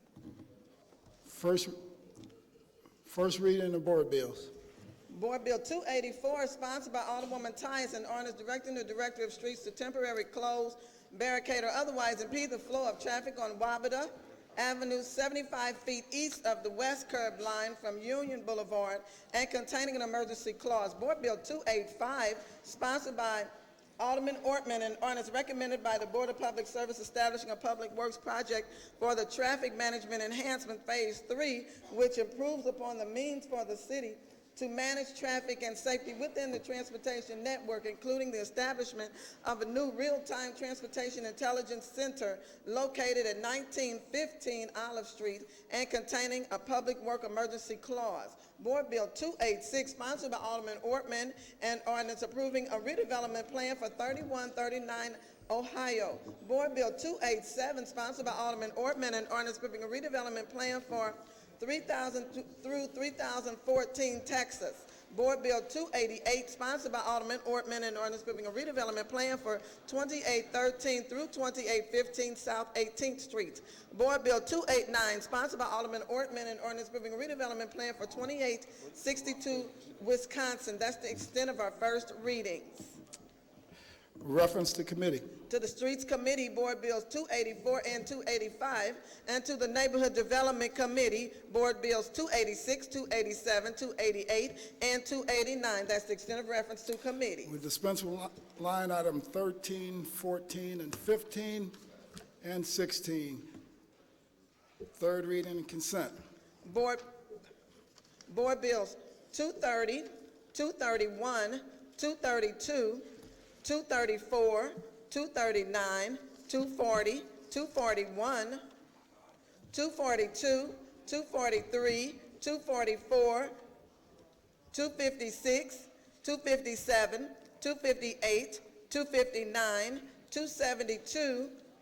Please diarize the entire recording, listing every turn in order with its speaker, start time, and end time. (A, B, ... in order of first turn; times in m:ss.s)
0:01.2-0:01.8 A
0:03.0-0:04.5 A
0:05.1-1:23.0 B
1:24.2-1:25.2 A
1:25.5-1:37.6 B
1:37.4-1:41.7 A
1:42.4-1:43.4 A
1:45.0-1:46.1 A
1:46.6-1:47.0 B
1:48.3-1:53.0 B
1:53.6-1:58.6 B
1:59.7-2:03.5 B
2:04.7-2:11.6 B